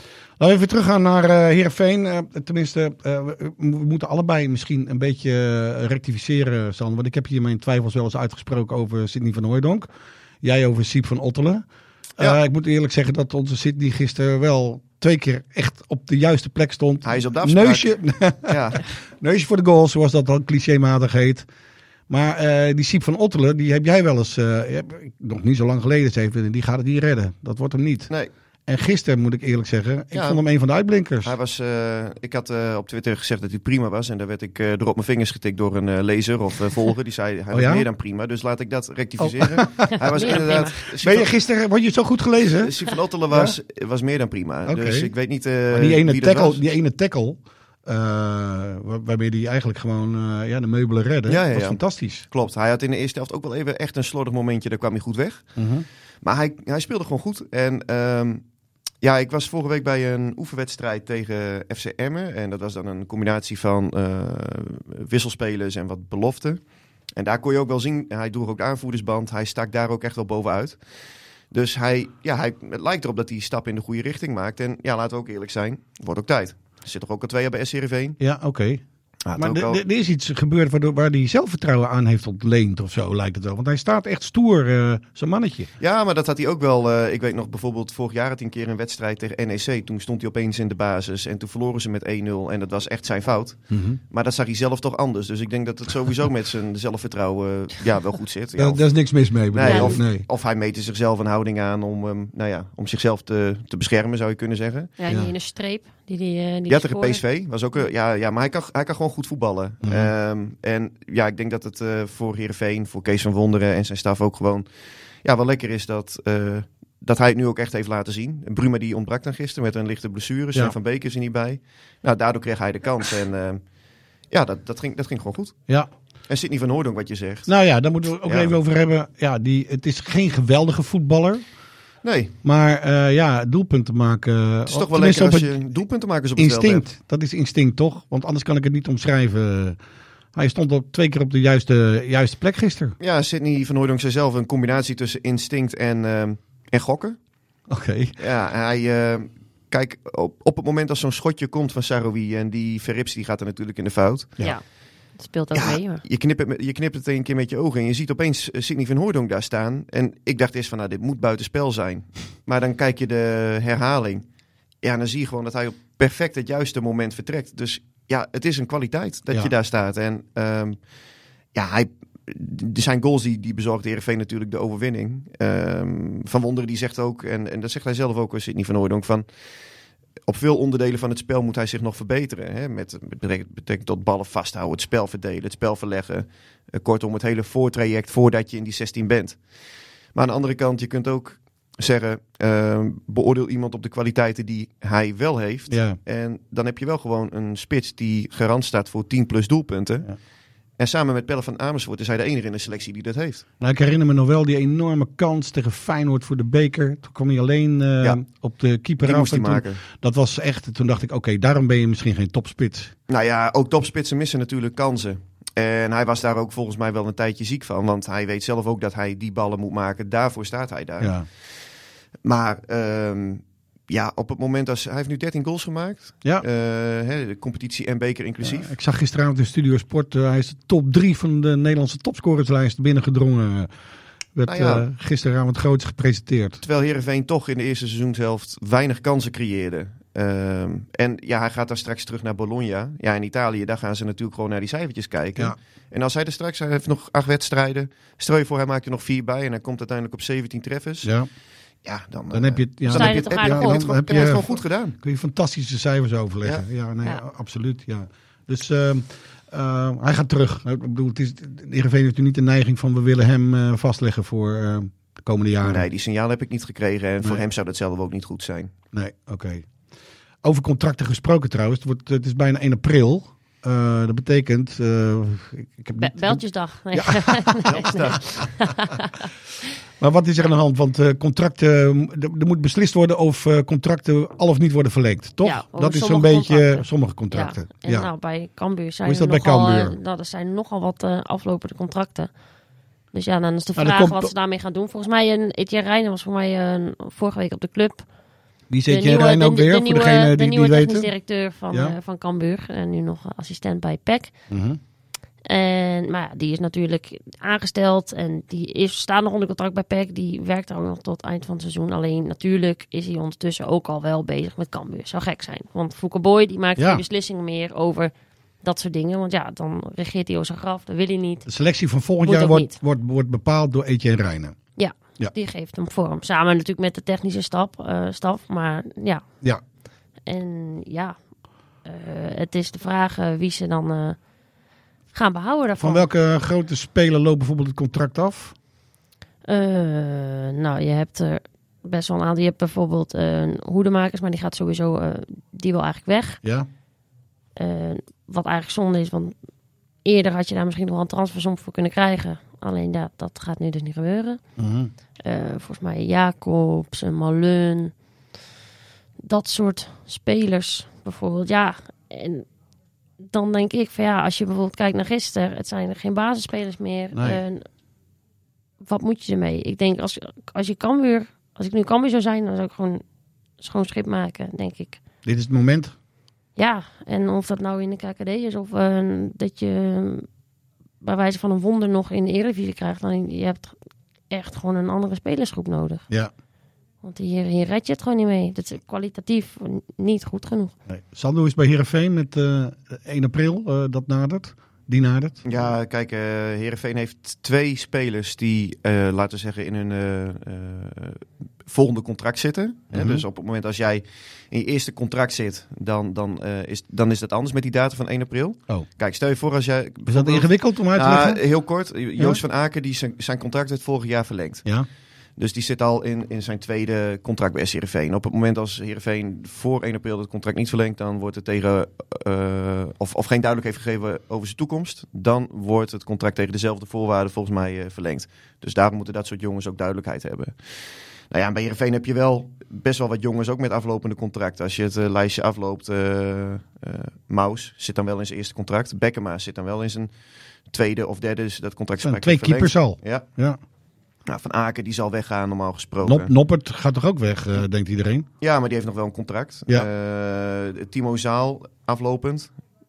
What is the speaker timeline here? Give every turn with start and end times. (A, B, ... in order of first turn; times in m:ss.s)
0:00.4-0:09.9 A
0:10.4-0:11.6 A
0:12.2-0:21.4 A
0:17.0-0:18.8 B
0:22.1-0:28.1 A
0:28.7-0:31.3 A
0:30.1-0:30.4 B
0:31.2-0:41.3 B
0:37.5-0:37.8 A
0:39.2-0:40.4 A
0:39.8-0:40.8 C
0:41.0-0:42.8 A
0:42.5-0:46.6 B
0:43.3-0:43.6 A
0:44.6-0:45.1 A
0:45.7-0:52.2 A
0:51.3-0:55.5 B
0:55.6-0:55.8 A
0:56.2-0:58.4 B
0:59.0-1:06.6 B
1:07.2-1:10.8 B
1:11.5-1:18.2 B
1:18.2-1:18.8 A
1:19.2-1:19.8 B
1:19.3-1:25.7 A
1:25.8-1:44.9 B
1:33.7-1:34.0 A
1:38.6-1:40.2 A
1:39.6-1:40.0 C
1:45.0-1:47.2 C
1:46.7-1:54.6 B
1:49.8-1:50.1 A
1:55.2-2:03.6 B
2:04.3-2:05.6 B
2:06.3-2:07.5 B
2:07.5-2:11.4 A
2:08.2-2:08.5 B
2:12.0-2:12.3 B
2:12.4-2:15.5 A
2:14.7-2:16.9 B
2:16.4-2:19.8 A
2:20.3-2:23.0 A
2:23.0-2:27.2 B
2:27.7-2:28.2 A
2:28.2-2:34.3 B
2:35.2-2:36.0 C
2:35.5-2:44.2 B
2:44.8-2:50.8 B
2:51.5-2:59.2 B
3:00.2-3:09.4 B
3:10.1-3:20.1 B
3:15.7-3:16.0 A
3:20.8-3:23.4 B
3:23.6-3:32.9 A
3:29.0-3:29.8 B
3:33.1-3:41.1 B
3:41.0-3:41.3 A
3:42.2-3:48.7 B
3:48.4-3:53.7 A
3:54.3-3:56.6 A
3:54.4-3:54.8 B
3:56.6-4:11.1 B
4:11.0-4:11.3 A
4:11.8-4:15.0 B
4:12.3-4:25.9 A
4:12.9-4:13.9 C
4:25.6-4:28.7 B
4:28.9-4:29.7 A
4:30.4-4:37.9 A
4:36.0-4:39.3 C
4:37.6-4:38.4 B
4:40.0-4:48.1 A
4:45.4-4:52.3 C
4:49.0-4:50.0 A
4:53.1-4:58.0 C
4:53.8-4:54.3 A
4:58.7-5:01.1 A
4:58.9-5:04.3 C
5:04.5-5:04.8 A
5:05.4-5:18.1 C
5:16.8-5:17.0 A
5:18.6-5:21.5 C
5:21.4-5:24.6 A
5:22.2-5:22.8 C
5:24.8-5:29.2 C
5:30.2-5:31.2 C
5:31.8-5:34.2 C
5:35.1-5:36.1 C
5:35.8-5:38.5 A
5:39.4-5:46.4 C
5:46.4-5:46.7 A
5:47.6-5:49.3 C
5:50.0-5:54.4 C
5:54.6-5:54.9 A
5:55.2-5:57.9 C
5:59.2-6:02.4 C
6:03.2-6:07.6 C
6:07.1-6:07.4 A
6:08.8-6:13.0 C
6:13.6-6:15.0 C
6:15.2-6:15.9 A
6:16.6-6:20.3 C
6:21.0-6:23.8 C
6:24.3-6:26.0 C
6:27.0-6:30.7 C
6:30.9-6:35.4 A
6:35.4-6:54.6 B
6:42.9-6:43.2 A
6:50.1-6:51.4 A
6:52.2-6:52.4 A
6:55.4-7:10.5 B
7:11.3-7:20.1 B
7:20.7-7:23.2 B
7:22.0-7:23.6 A
7:24.2-7:26.3 B
7:26.0-7:28.3 A
7:28.4-7:32.5 B